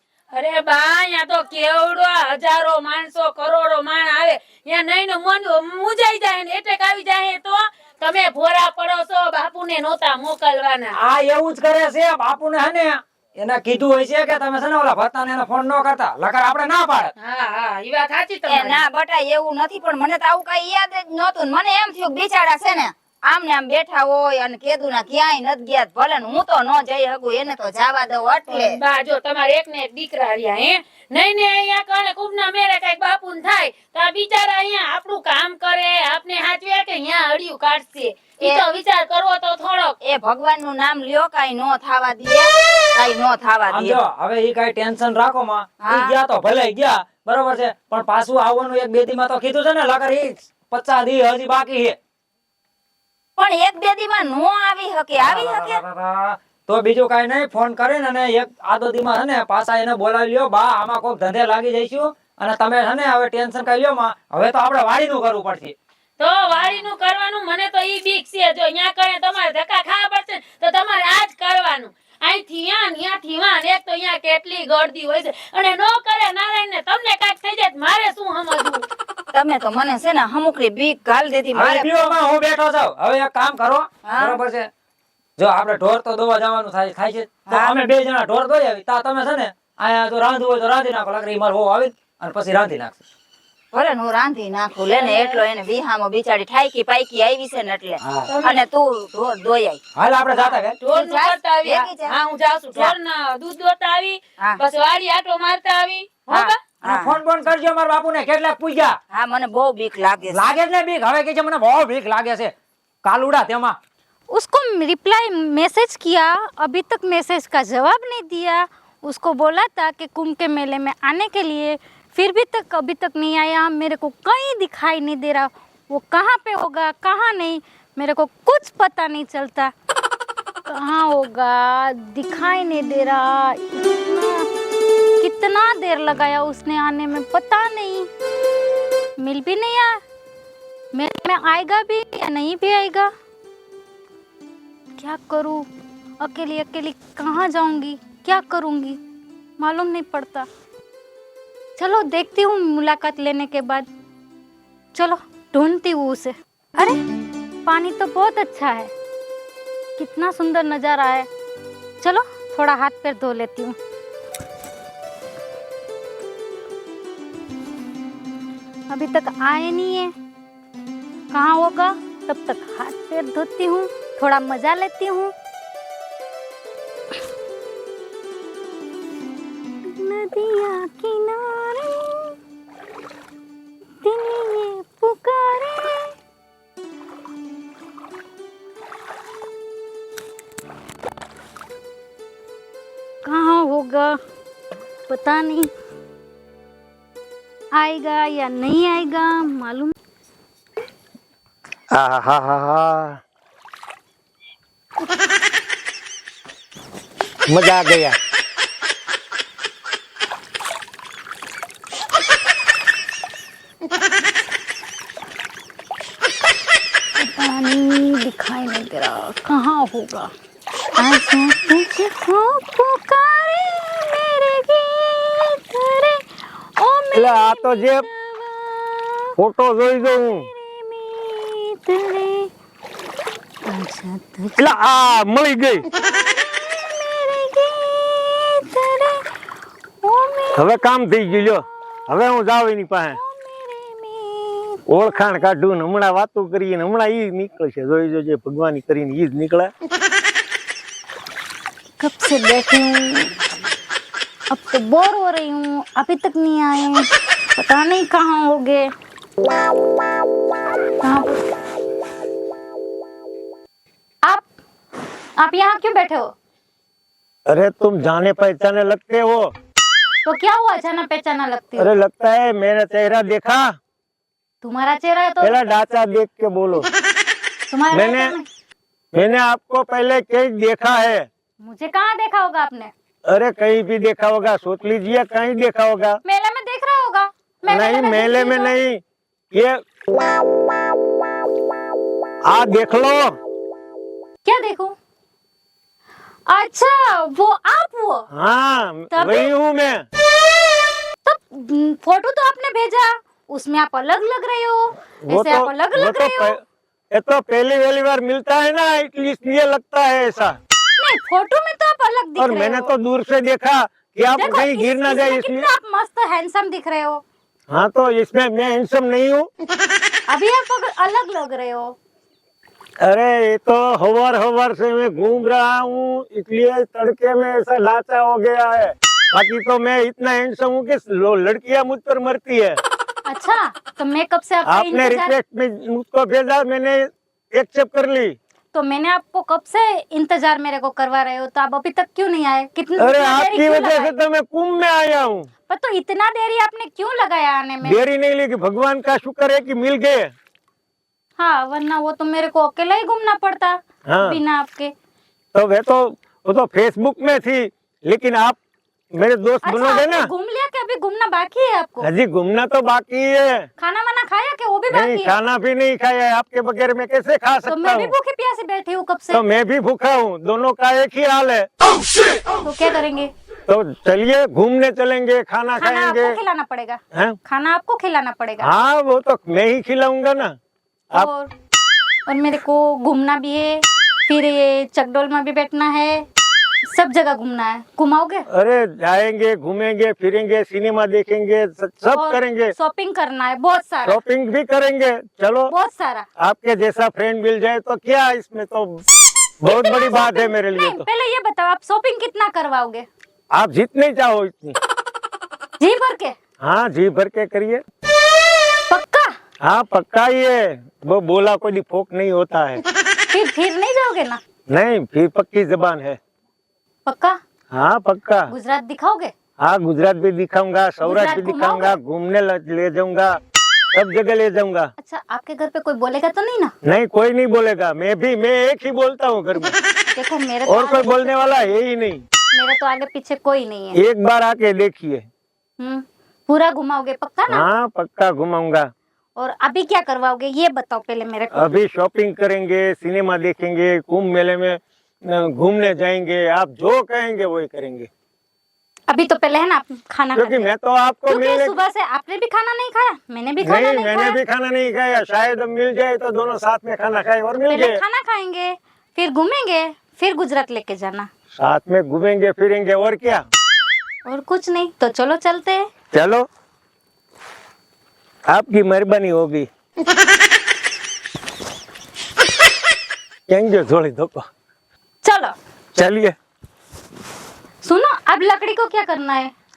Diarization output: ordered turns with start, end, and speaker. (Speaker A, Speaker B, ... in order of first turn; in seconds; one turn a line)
Speaker A: 0.3-11.0
Speaker B: 10.9-17.1
Speaker A: 17.2-18.9
Speaker C: 18.5-28.8
Speaker A: 28.5-40.0
Speaker C: 40.0-44.0
Speaker B: 43.7-52.0
Speaker C: 45.8-46.1
Speaker C: 53.4-55.8
Speaker B: 55.2-65.8
Speaker A: 66.2-78.9
Speaker C: 79.3-81.9
Speaker B: 81.5-84.7
Speaker C: 84.1-84.4
Speaker B: 85.4-93.0
Speaker C: 87.5-87.9
Speaker C: 93.7-99.8
Speaker A: 94.9-95.4
Speaker B: 98.0-98.3
Speaker B: 100.0-100.8
Speaker C: 100.3-102.2
Speaker A: 100.8-106.7
Speaker C: 106.3-107.2
Speaker B: 106.8-108.9
Speaker C: 109.1-110.5
Speaker B: 110.3-112.5
Speaker B: 113.0-113.8
Speaker D: 114.3-129.7
Speaker D: 130.7-134.5
Speaker D: 135.2-138.1
Speaker D: 139.2-140.0
Speaker D: 140.9-143.1
Speaker D: 145.0-145.7
Speaker D: 146.2-149.0
Speaker D: 149.6-150.5
Speaker D: 151.8-153.9
Speaker D: 154.9-157.0
Speaker D: 157.7-158.9
Speaker D: 160.0-161.3
Speaker D: 162.0-163.8
Speaker D: 168.9-170.1
Speaker D: 171.3-175.3
Speaker D: 179.9-182.3
Speaker D: 184.0-186.1
Speaker D: 193.2-194.2
Speaker D: 195.1-195.7
Speaker D: 197.8-199.9
Speaker E: 201.9-203.2
Speaker E: 207.5-208.2
Speaker D: 217.2-220.3
Speaker D: 221.0-226.3
Speaker D: 226.8-229.3
Speaker E: 227.1-228.1
Speaker E: 229.4-230.5
Speaker D: 230.1-232.5
Speaker D: 233.7-234.7
Speaker E: 234.6-235.8
Speaker D: 235.9-239.2
Speaker D: 240.0-240.7
Speaker E: 240.6-243.2
Speaker D: 243.1-244.8
Speaker E: 244.9-249.7
Speaker D: 252.0-253.3
Speaker D: 254.5-258.9
Speaker D: 261.0-261.4
Speaker D: 265.4-266.3
Speaker E: 267.5-269.5
Speaker D: 270.3-271.9
Speaker E: 271.8-273.7
Speaker D: 274.6-275.6
Speaker E: 275.4-276.9
Speaker D: 277.7-278.5
Speaker E: 277.9-278.4
Speaker E: 279.1-281.3
Speaker D: 281.6-282.9
Speaker E: 283.3-286.2
Speaker D: 286.2-288.7
Speaker E: 287.7-289.0
Speaker E: 289.5-289.8
Speaker E: 292.5-293.3
Speaker D: 294.4-295.0
Speaker D: 296.5-298.3
Speaker E: 298.3-300.1
Speaker D: 299.1-299.5
Speaker D: 301.2-306.6
Speaker E: 305.2-306.6
Speaker E: 307.1-310.6
Speaker D: 311.0-312.9
Speaker E: 312.4-315.7
Speaker D: 314.4-317.2
Speaker E: 317.7-319.5
Speaker D: 320.3-321.9
Speaker E: 323.0-332.8
Speaker D: 333.3-335.3
Speaker E: 334.7-338.4
Speaker D: 338.7-344.1
Speaker E: 343.0-345.5
Speaker D: 345.7-348.0
Speaker E: 347.8-350.3
Speaker D: 351.4-354.9
Speaker E: 354.1-354.4
Speaker E: 355.5-358.6
Speaker E: 359.1-360.3
Speaker D: 359.6-362.1
Speaker E: 362.0-363.7
Speaker D: 363.8-365.3
Speaker E: 364.9-368.1
Speaker D: 367.7-369.4
Speaker E: 369.3-371.7
Speaker D: 372.6-373.3
Speaker E: 373.7-376.4
Speaker D: 375.8-378.7
Speaker E: 378.6-380.5
Speaker D: 381.1-381.5
Speaker D: 382.3-386.2
Speaker D: 386.9-388.4
Speaker E: 388.5-392.7
Speaker D: 392.1-394.2
Speaker E: 394.1-395.7
Speaker D: 395.7-396.3
Speaker E: 396.4-399.0
Speaker E: 399.6-401.1
Speaker D: 399.7-403.1
Speaker E: 403.5-404.8
Speaker D: 405.8-406.4
Speaker E: 406.6-407.8
Speaker D: 408.9-409.4
Speaker E: 409.6-412.8
Speaker D: 413.3-414.4
Speaker E: 414.7-416.2
Speaker D: 417.1-417.4
Speaker E: 417.7-418.5
Speaker D: 418.5-419.3
Speaker E: 419.6-423.4
Speaker D: 421.1-421.9
Speaker E: 423.9-424.9
Speaker D: 425.0-426.7
Speaker E: 426.8-429.8
Speaker D: 430.1-431.7
Speaker E: 430.7-432.2
Speaker D: 432.5-434.0
Speaker E: 433.9-435.3
Speaker D: 435.8-437.7
Speaker E: 437.5-438.9
Speaker D: 439.4-441.7
Speaker E: 441.5-448.1
Speaker D: 449.1-450.7
Speaker E: 450.3-451.8
Speaker D: 451.3-454.4
Speaker E: 453.6-458.0
Speaker D: 457.7-461.3
Speaker E: 461.6-463.4
Speaker D: 464.3-465.8
Speaker E: 466.1-466.4
Speaker E: 468.5-469.7
Speaker E: 473.5-474.5
Speaker D: 475.2-475.5
Speaker E: 475.9-476.4
Speaker D: 477.8-479.5